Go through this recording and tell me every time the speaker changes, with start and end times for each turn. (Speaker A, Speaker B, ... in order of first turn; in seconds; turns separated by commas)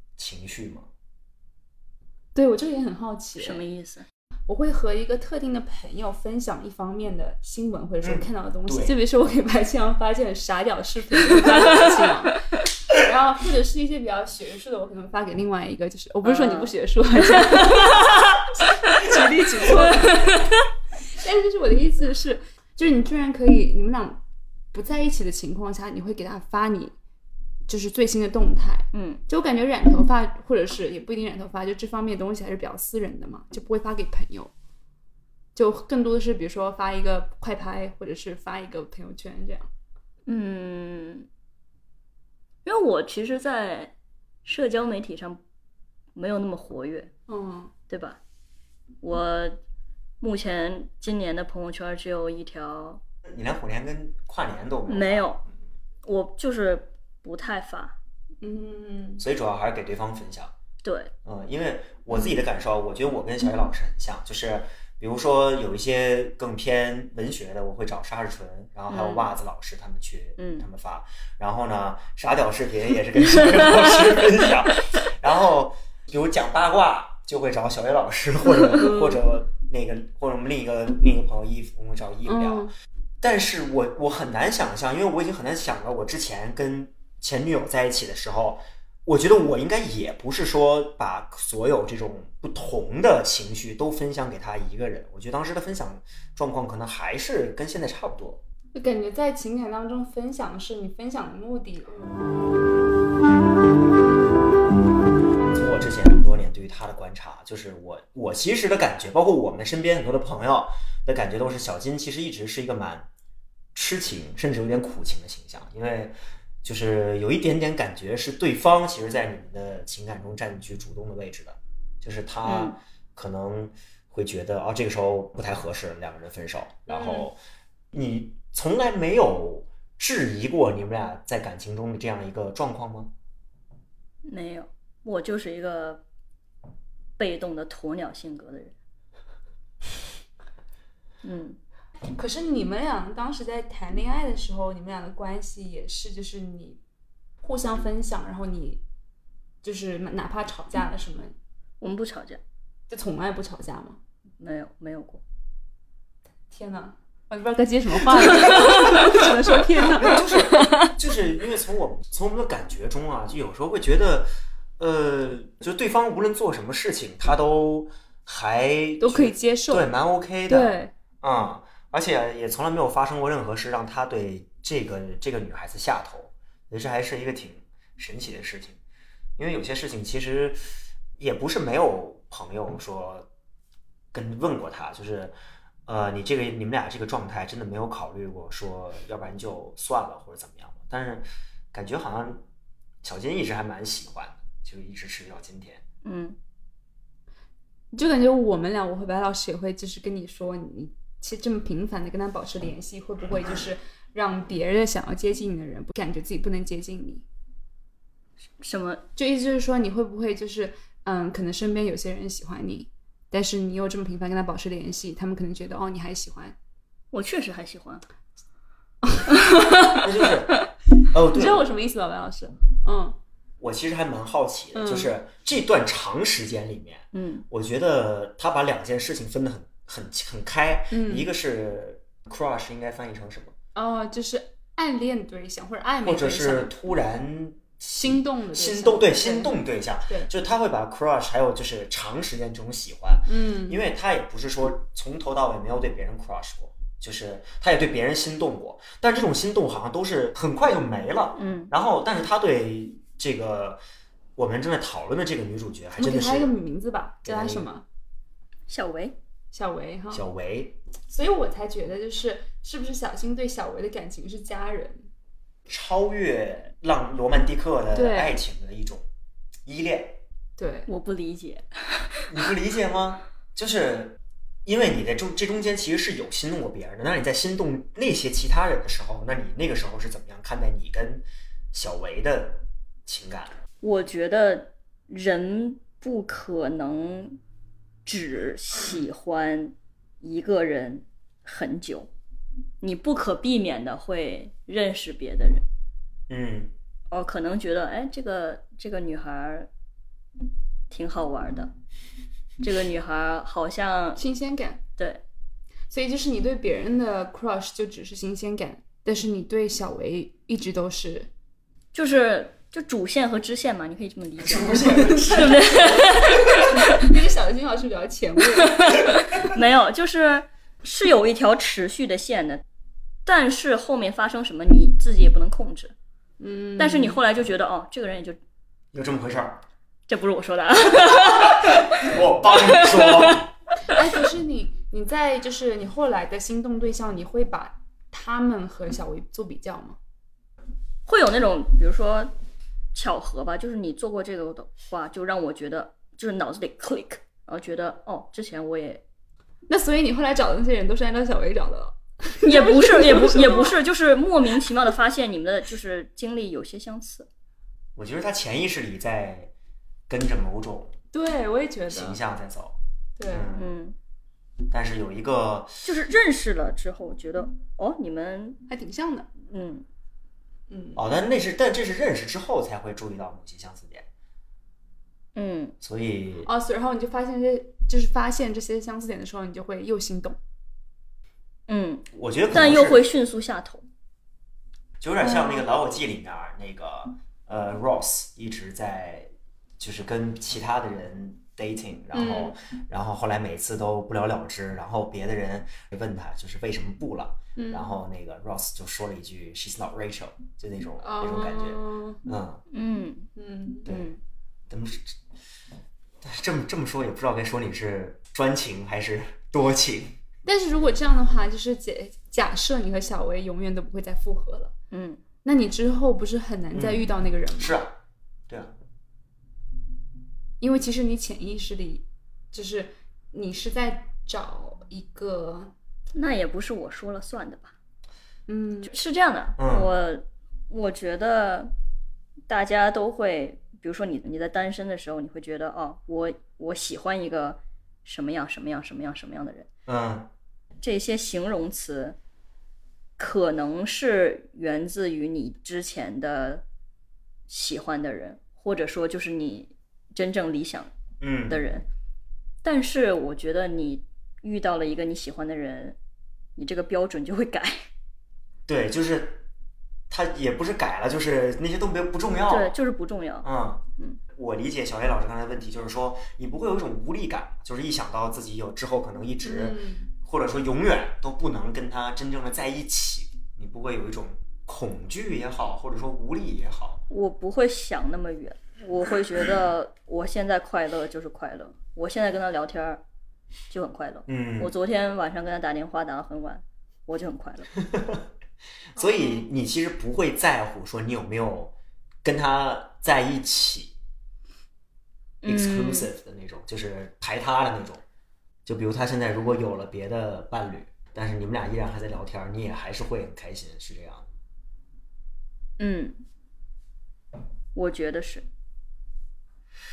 Speaker A: 0.2-0.9, Speaker B: 2.3-3.6, Speaker C: 3.4-4.0, Speaker B: 4.5-18.1, Speaker A: 8.0-8.9, Speaker C: 11.5-11.9, Speaker C: 16.2-16.7, Speaker C: 17.3-18.1, Speaker B: 18.6-20.5, Speaker C: 19.7-20.6, Speaker B: 21.1-24.2, Speaker B: 24.7-26.9, Speaker B: 27.7-34.5, Speaker C: 28.9-29.2, Speaker B: 35.5-39.7, Speaker C: 40.3-41.3, Speaker C: 42.6-43.9, Speaker C: 44.4-45.4, Speaker C: 46.1-47.1, Speaker B: 47.3-47.7, Speaker C: 47.9-48.2, Speaker C: 49.0-49.6, Speaker C: 50.2-53.0, Speaker A: 53.3-55.5, Speaker C: 54.9-55.4, Speaker C: 56.0-58.0, Speaker B: 58.4-59.2, Speaker A: 59.2-60.5, Speaker C: 60.8-61.1, Speaker A: 61.2-82.7, Speaker C: 68.9-69.3, Speaker C: 70.4-70.6, Speaker C: 73.4-74.0, Speaker B: 78.7-79.2, Speaker B: 82.2-82.7, Speaker A: 83.2-98.4, Speaker B: 98.7-102.2, Speaker A: 105.5-113.1, Speaker A: 113.7-127.4, Speaker C: 122.4-122.8, Speaker B: 126.9-127.3, Speaker A: 127.9-133.1, Speaker C: 134.2-136.0, Speaker C: 137.2-138.7, Speaker C: 141.2-141.6, Speaker B: 142.1-146.8, Speaker B: 147.4-148.8, Speaker B: 149.6-151.3, Speaker C: 151.8-152.4, Speaker B: 152.9-154.0, Speaker C: 154.4-155.2, Speaker B: 156.5-160.9, Speaker A: 158.9-178.8, Speaker B: 169.0-169.9, Speaker B: 170.5-170.9, Speaker A: 179.4-183.3, Speaker A: 184.1-185.3, Speaker A: 185.8-192.4, Speaker A: 193.0-195.8, Speaker C: 196.0-196.4, Speaker B: 197.9-207.2, Speaker C: 208.6-209.0, Speaker B: 209.2-216.6, Speaker C: 217.1-218.0, Speaker B: 219.0-220.1, Speaker A: 219.9-221.7, Speaker B: 221.3-223.2, Speaker A: 223.6-233.5, Speaker B: 224.7-225.1, Speaker C: 227.1-227.4, Speaker B: 230.9-231.3, Speaker B: 233.7-236.7, Speaker A: 236.0-253.8, Speaker B: 237.9-239.5, Speaker B: 243.3-243.8, Speaker C: 251.3-251.7, Speaker A: 254.3-256.5, Speaker B: 256.0-257.8, Speaker A: 257.2-257.7, Speaker C: 258.7-259.1, Speaker B: 259.5-260.2, Speaker A: 260.1-260.8, Speaker B: 261.1-265.1, Speaker A: 265.7-269.1, Speaker B: 267.9-268.4, Speaker A: 269.6-270.2, Speaker B: 270.6-270.9, Speaker C: 270.9-272.3, Speaker A: 272.3-283.6, Speaker C: 283.8-287.4, Speaker C: 288.0-292.1, Speaker C: 292.8-295.6, Speaker A: 296.3-296.7, Speaker C: 297.1-299.7, Speaker C: 300.9-301.7, Speaker C: 302.6-304.2, Speaker B: 304.1-304.8, Speaker C: 305.0-305.2, Speaker B: 305.9-311.3, Speaker C: 311.9-317.1, Speaker A: 314.4-316.2, Speaker B: 316.8-319.0, Speaker C: 318.6-322.6, Speaker C: 323.2-325.9, Speaker B: 326.4-327.2, Speaker C: 326.8-328.4, Speaker A: 328.9-329.6, Speaker C: 330.1-332.1, Speaker A: 331.9-333.4, Speaker C: 332.7-333.9, Speaker B: 333.9-340.0, Speaker C: 341.1-342.3, Speaker C: 342.9-349.0, Speaker B: 349.7-353.8, Speaker C: 352.4-357.3, Speaker A: 357.9-359.5, Speaker A: 360.1-360.9, Speaker B: 361.1-362.2, Speaker A: 361.9-362.8, Speaker B: 363.2-363.5, Speaker A: 363.3-363.7, Speaker C: 363.5-363.9, Speaker A: 364.7-365.9, Speaker C: 365.8-368.6, Speaker B: 368.7-369.3, Speaker C: 369.5-369.8, Speaker B: 370.7-371.0, Speaker A: 370.9-374.1, Speaker C: 375.3-375.7, Speaker A: 375.8-376.5, Speaker B: 376.4-380.4, Speaker C: 381.7-383.8, Speaker A: 382.1-383.0, Speaker A: 385.0-402.6, Speaker B: 385.2-385.8, Speaker B: 392.1-392.5, Speaker B: 397.6-397.9, Speaker B: 401.0-402.2, Speaker C: 402.7-403.3, Speaker B: 403.4-403.9, Speaker A: 403.8-404.1, Speaker C: 403.9-404.2, Speaker A: 404.7-405.2, Speaker A: 406.2-410.2, Speaker B: 410.4-414.7, Speaker C: 414.9-415.2, Speaker B: 415.4-417.8, Speaker A: 416.7-418.0, Speaker B: 420.6-425.7, Speaker C: 426.1-427.7, Speaker B: 428.5-428.9, Speaker C: 428.9-431.7, Speaker A: 429.6-429.9, Speaker C: 432.5-439.7, Speaker A: 439.9-440.3, Speaker C: 440.8-442.2, Speaker C: 443.2-446.6, Speaker C: 447.5-450.9, Speaker A: 451.2-451.6, Speaker C: 451.5-451.8, Speaker C: 452.6-456.0, Speaker C: 456.6-457.8, Speaker A: 458.7-459.4, Speaker A: 460.1-462.7, Speaker C: 462.5-464.2, Speaker A: 463.4-477.0, Speaker B: 469.4-470.1, Speaker C: 477.1-483.0, Speaker C: 483.7-487.7, Speaker A: 484.3-484.7, Speaker A: 487.9-488.2, Speaker A: 488.9-493.9, Speaker C: 495.4-496.1, Speaker A: 495.4-498.0, Speaker A: 498.6-504.3, Speaker C: 505.8-506.2, Speaker C: 507.7-508.4